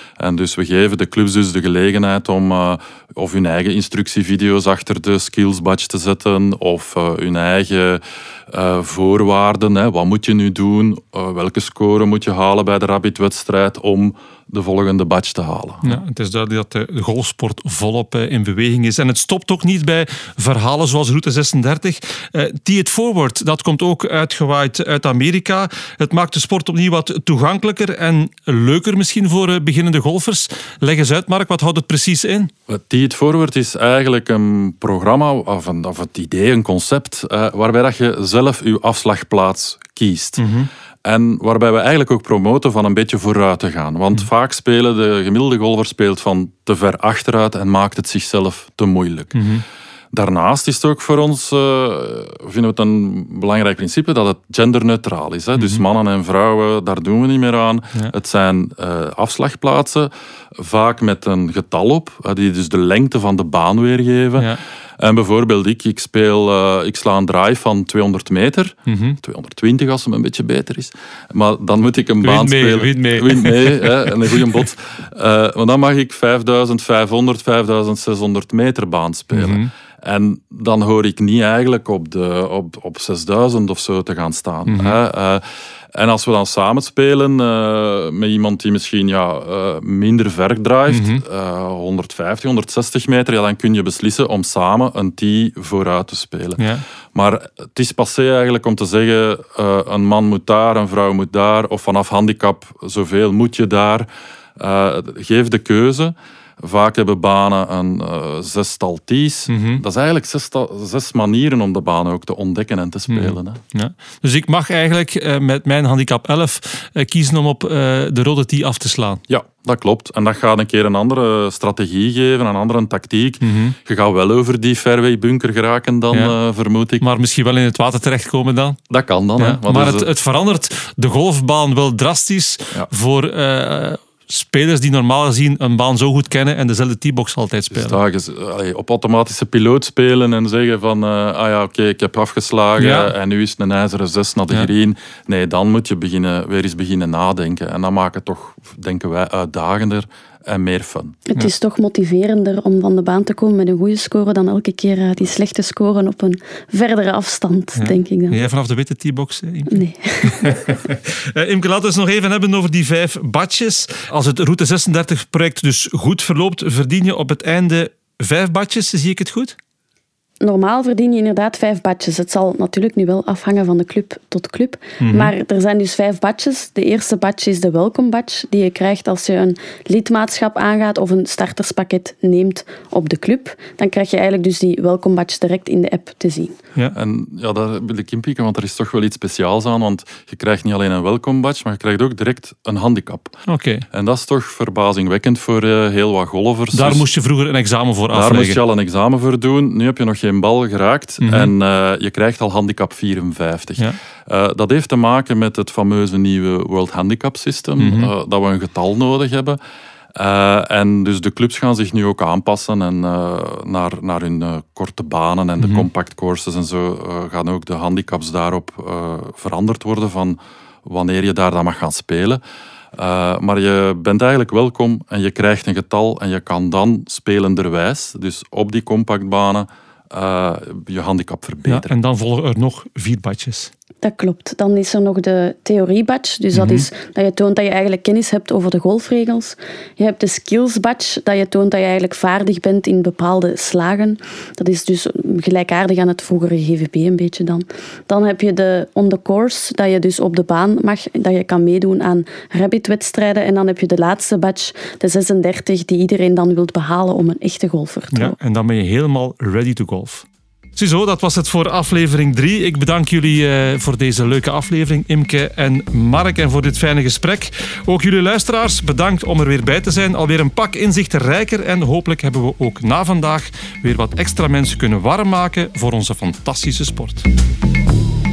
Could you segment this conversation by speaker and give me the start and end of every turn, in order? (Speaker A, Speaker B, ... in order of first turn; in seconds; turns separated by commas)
Speaker A: 0.2-16.0, Speaker B: 15.8-32.5, Speaker A: 32.7-40.5, Speaker B: 40.4-40.7, Speaker A: 41.0-49.5, Speaker B: 49.3-49.6, Speaker A: 50.1-96.6, Speaker B: 55.6-55.8, Speaker B: 68.9-69.2, Speaker B: 72.2-74.6, Speaker B: 79.3-79.7, Speaker B: 84.7-85.0, Speaker B: 90.9-91.2, Speaker B: 96.6-96.8, Speaker A: 97.1-113.6, Speaker B: 109.5-109.8, Speaker B: 113.1-119.2, Speaker A: 119.3-127.0, Speaker B: 123.4-123.8, Speaker B: 127.0-128.8, Speaker A: 128.9-130.1, Speaker B: 129.4-138.0, Speaker A: 137.7-151.2, Speaker B: 142.8-143.1, Speaker C: 151.3-158.4, Speaker B: 157.8-169.6, Speaker C: 159.7-160.6, Speaker C: 170.4-186.6, Speaker B: 175.0-175.3, Speaker A: 186.9-193.4, Speaker B: 193.5-193.8, Speaker A: 193.9-197.1, Speaker B: 196.7-198.6, Speaker A: 198.1-209.6, Speaker B: 201.2-201.5, Speaker B: 207.8-208.1, Speaker A: 210.2-222.4, Speaker B: 215.6-215.9, Speaker A: 222.9-231.9, Speaker B: 231.7-233.7, Speaker C: 234.0-258.4, Speaker B: 236.5-236.9, Speaker B: 258.1-277.3